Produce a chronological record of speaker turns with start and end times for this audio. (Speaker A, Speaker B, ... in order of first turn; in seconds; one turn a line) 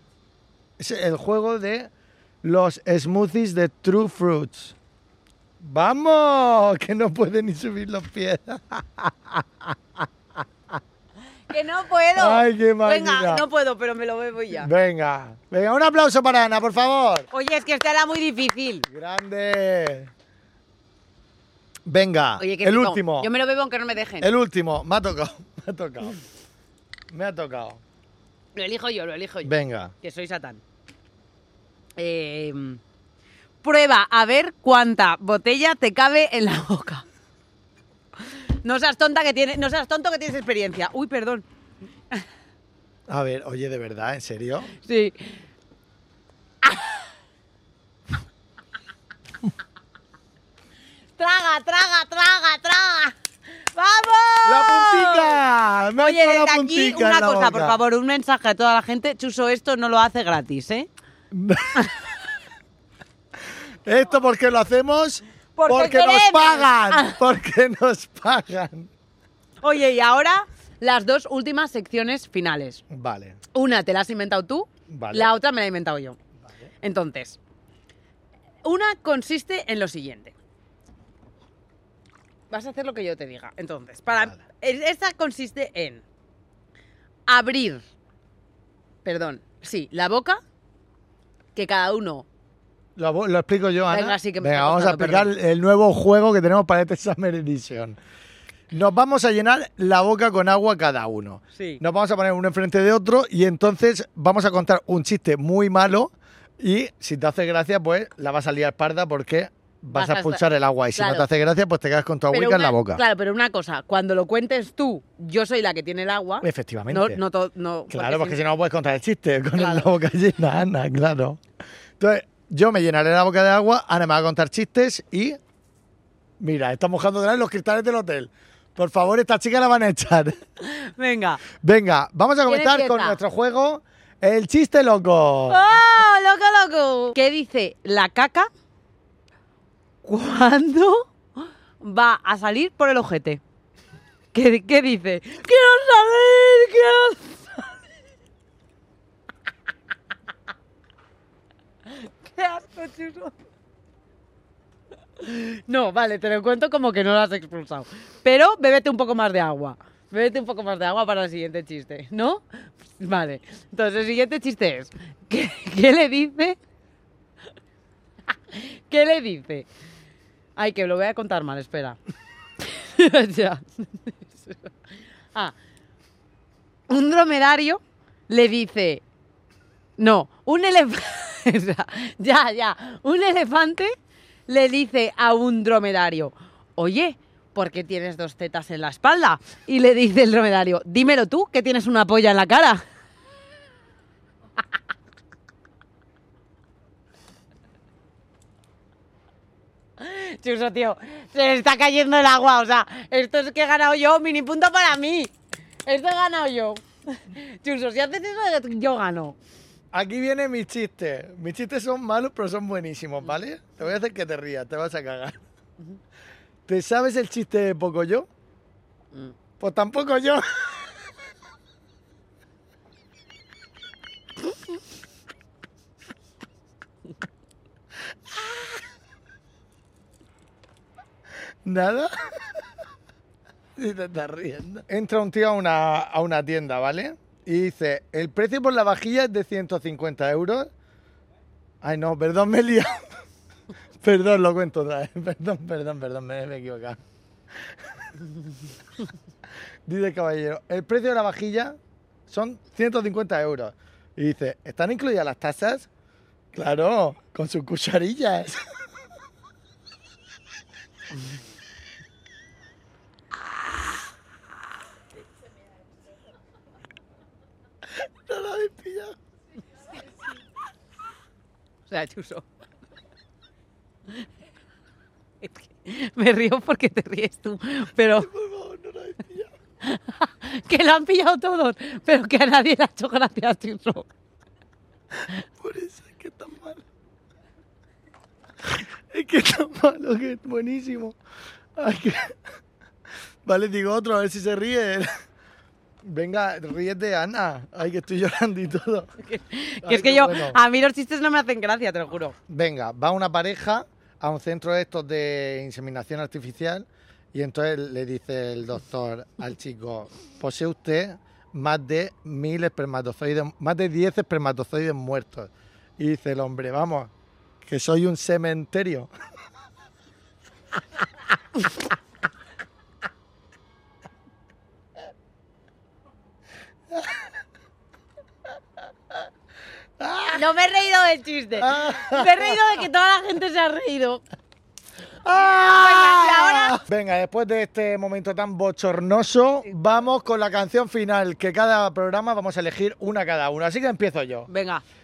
Speaker A: 0.8-1.9
Speaker A: 2.4-4.7
Speaker A: 5.6-10.1
Speaker B: 11.5-14.7
Speaker A: 12.2-13.4
Speaker A: 14.6-17.3
Speaker B: 17.3-18.9
Speaker A: 18.9-20.1
Speaker A: 21.9-23.3
Speaker B: 22.4-24.3
Speaker A: 24.2-26.2
Speaker A: 27.1-27.8
Speaker B: 28.5-30.6
Speaker A: 29.4-29.9
Speaker B: 32.0-32.8
Speaker B: 33.6-37.0
Speaker B: 38.6-41.4
Speaker A: 43.1-44.7
Speaker B: 44.8-45.3
Speaker B: 51.2-53.1
Speaker B: 53.7-55.4
Speaker A: 54.4-57.8
Speaker B: 56.0-60.9
Speaker A: 61.3-61.9
Speaker A: 63.8-68.9
Speaker B: 65.5-67.2
Speaker B: 69.6-72.8
Speaker A: 72.9-73.4
Speaker B: 73.5-76.2
Speaker A: 74.9-75.3
Speaker B: 76.8-77.4
Speaker B: 78.6-80.3
Speaker B: 82.5-86.0
Speaker B: 87.3-87.8
Speaker B: 89.0-90.4
Speaker B: 91.5-92.2
Speaker A: 93.0-98.0
Speaker B: 93.9-95.3
Speaker A: 98.7-113.0
Speaker B: 101.5-101.8
Speaker B: 109.9-110.4
Speaker B: 110.9-111.2
Speaker B: 112.3-118.4
Speaker A: 116.4-117.2
Speaker A: 117.9-121.4
Speaker B: 119.5-119.9
Speaker A: 122.0-125.4
Speaker A: 126.4-130.4
Speaker B: 130.6-131.4
Speaker A: 131.6-135.8
Speaker B: 132.5-133.2
Speaker B: 135.5-138.5
Speaker B: 140.0-141.1
Speaker B: 141.8-143.4
Speaker B: 144.3-147.8
Speaker B: 152.2-153.3
Speaker B: 155.2-166.6
Speaker B: 168.5-169.7
Speaker B: 170.6-172.0
Speaker B: 172.7-174.7
Speaker B: 176.9-179.0
Speaker B: 180.0-183.9
Speaker B: 184.5-192.8
Speaker B: 200.0-205.3
Speaker B: 205.8-209.3
Speaker A: 209.9-215.4
Speaker A: 216.7-218.3
Speaker A: 219.6-220.9
Speaker A: 231.6-232.5
Speaker A: 233.8-240.7
Speaker A: 241.8-243.1
Speaker A: 244.0-247.0
Speaker A: 249.8-251.8
Speaker A: 252.3-255.9
Speaker A: 256.5-258.6
Speaker A: 267.9-269.1
Speaker B: 271.9-272.4
Speaker B: 275.4-278.3
Speaker A: 278.2-279.5
Speaker B: 279.8-284.1
Speaker A: 285.6-286.8
Speaker A: 288.6-291.1
Speaker A: 291.8-292.4
Speaker A: 293.4-295.1
Speaker A: 296.0-299.1
Speaker B: 299.2-302.4
Speaker A: 299.8-300.6
Speaker A: 302.5-317.1
Speaker A: 317.6-319.1
Speaker A: 326.9-327.2
Speaker A: 330.0-330.4
Speaker B: 330.3-334.2
Speaker A: 331.6-332.6
Speaker A: 335.2-344.5
Speaker B: 335.7-336.8
Speaker B: 344.5-344.8